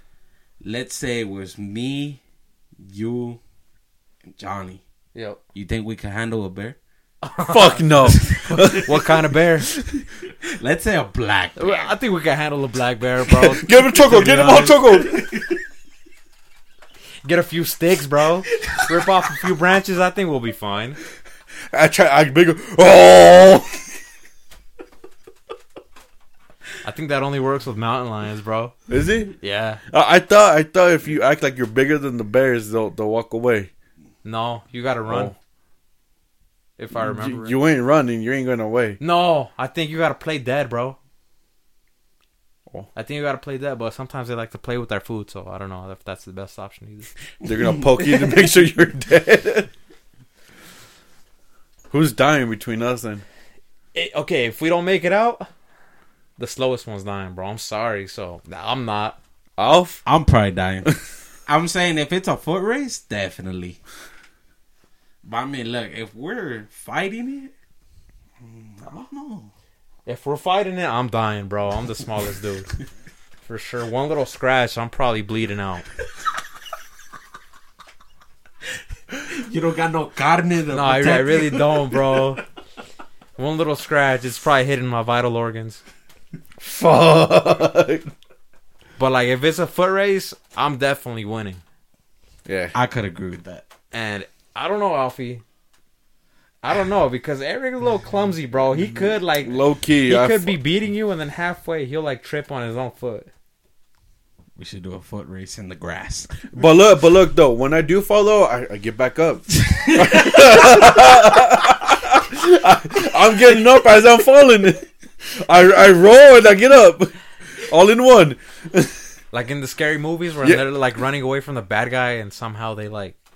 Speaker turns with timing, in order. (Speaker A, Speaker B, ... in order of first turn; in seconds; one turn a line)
Speaker A: 0.6-2.2
Speaker A: 2.8-3.4
Speaker A: 4.3-4.8
Speaker B: 5.2-5.4
Speaker A: 5.5-6.8
Speaker B: 7.2-9.7
Speaker C: 7.5-9.4
Speaker A: 10.3-11.9
Speaker B: 11.6-14.6
Speaker C: 13.3-15.3
Speaker A: 14.1-15.6
Speaker B: 17.2-21.0
Speaker C: 21.7-23.9
Speaker B: 26.8-28.8
Speaker C: 28.9-29.4
Speaker B: 29.4-29.8
Speaker C: 29.9-33.7
Speaker B: 34.2-35.3
Speaker C: 35.1-35.4
Speaker B: 36.8-37.5
Speaker C: 36.9-39.0
Speaker B: 39.0-41.0
Speaker B: 43.0-47.1
Speaker C: 47.4-49.7
Speaker C: 51.9-53.2
Speaker B: 53.9-55.5
Speaker B: 56.4-59.2
Speaker C: 59.6-60.0
Speaker A: 60.1-60.9
Speaker A: 61.5-63.8
Speaker A: 65.2-67.5
Speaker A: 68.4-69.5
Speaker B: 70.1-72.8
Speaker B: 73.4-75.9
Speaker A: 79.1-82.0
Speaker B: 80.7-82.5
Speaker B: 83.4-85.8
Speaker C: 86.6-88.1
Speaker B: 89.0-91.6
Speaker C: 92.5-92.7
Speaker A: 92.7-93.7
Speaker B: 93.9-95.4
Speaker B: 96.6-103.3
Speaker C: 99.4-100.6
Speaker A: 104.6-106.5
Speaker C: 106.5-119.0
Speaker A: 109.6-110.7
Speaker B: 119.3-123.2